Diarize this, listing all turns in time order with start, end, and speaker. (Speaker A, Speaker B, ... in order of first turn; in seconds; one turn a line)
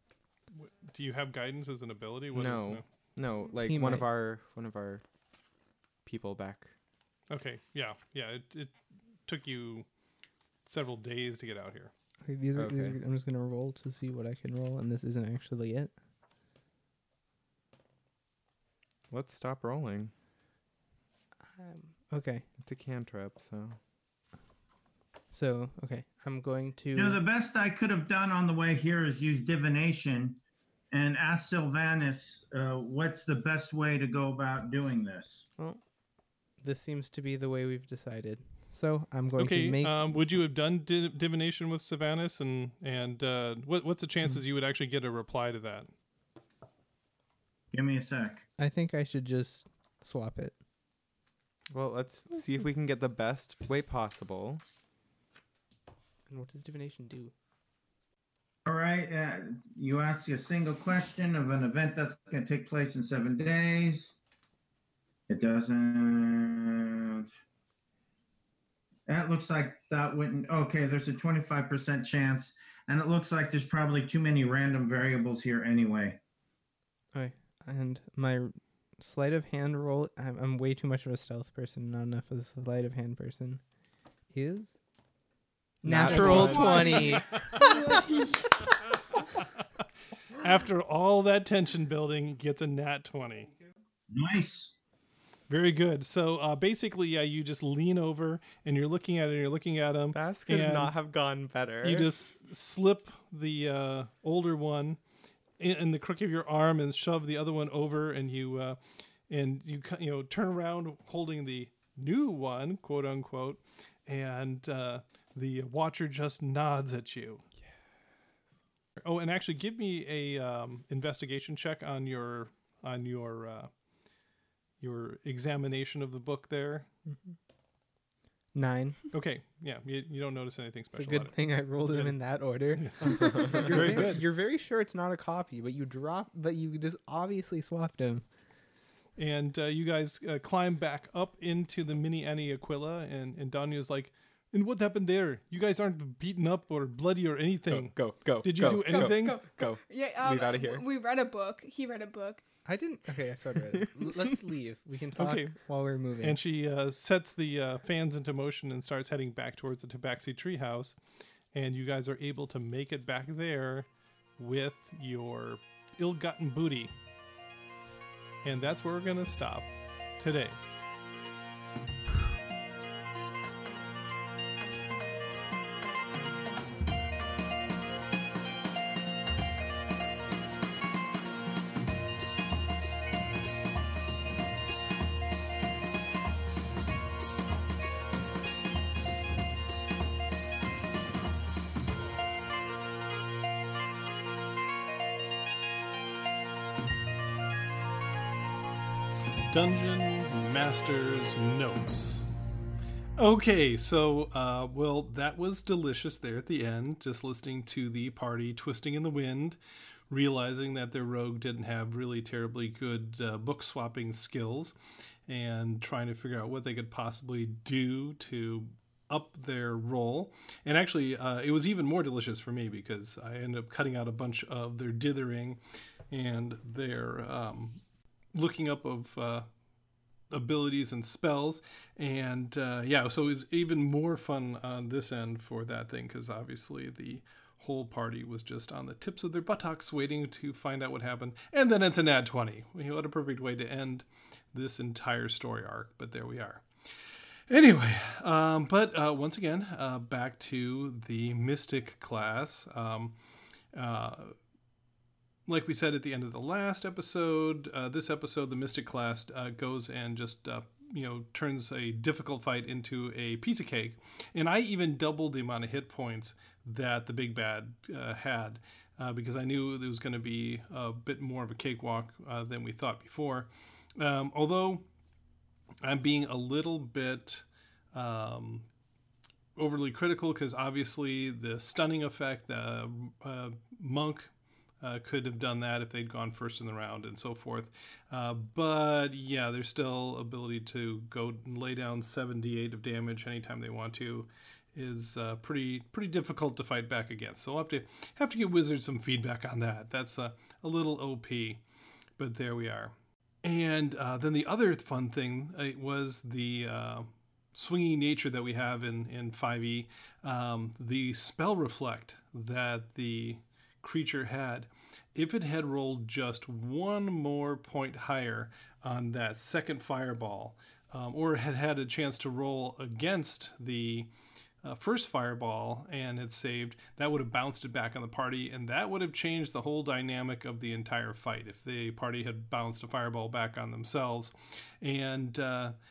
Speaker A: 0.5-2.8
Speaker B: 2.3-5.0
Speaker C: 3.6-4.0
Speaker B: 6.0-6.7
Speaker A: 7.3-9.9
Speaker A: 10.6-11.9
Speaker C: 12.2-15.9
Speaker B: 12.5-13.0
Speaker B: 19.1-20.1
Speaker C: 21.5-22.4
Speaker B: 22.6-23.8
Speaker C: 25.3-27.2
Speaker D: 26.9-30.4
Speaker D: 30.9-35.5
Speaker C: 36.6-40.2
Speaker A: 39.4-45.9
Speaker D: 47.7-48.5
Speaker C: 48.6-50.6
Speaker B: 51.7-54.6
Speaker C: 56.3-57.3
Speaker D: 58.6-64.2
Speaker D: 65.3-67.3
Speaker D: 69.1-76.2
Speaker C: 77.1-83.6
Speaker C: 84.3-84.8
Speaker B: 85.8-87.0
Speaker C: 85.8-88.1
Speaker A: 86.0-88.0
Speaker E: 86.1-88.4
Speaker A: 88.8-93.5
Speaker D: 94.1-94.7
Speaker A: 95.5-101.0
Speaker B: 100.1-102.1
Speaker A: 101.8-105.0
Speaker A: 105.6-117.4
Speaker A: 119.0-123.7
Speaker A: 124.8-126.9
Speaker C: 127.1-127.3
Speaker C: 128.5-129.0
Speaker A: 129.1-131.3
Speaker C: 130.9-138.2
Speaker A: 131.8-132.1
Speaker A: 132.7-134.2
Speaker A: 139.2-149.4
Speaker B: 147.7-150.8
Speaker E: 148.8-152.4
Speaker C: 152.6-156.4
Speaker B: 155.2-155.5
Speaker A: 156.2-160.9
Speaker A: 161.5-166.9
Speaker A: 168.4-170.6
Speaker A: 199.5-202.3
Speaker A: 203.2-209.6
Speaker A: 210.1-214.8
Speaker A: 215.3-227.8
Speaker A: 228.3-229.5
Speaker A: 230.3-246.7
Speaker A: 247.5-253.2
Speaker A: 253.7-254.3
Speaker A: 255.4-274.9
Speaker A: 275.8-278.7
Speaker A: 279.6-301.6
Speaker A: 302.2-324.1
Speaker A: 324.6-335.8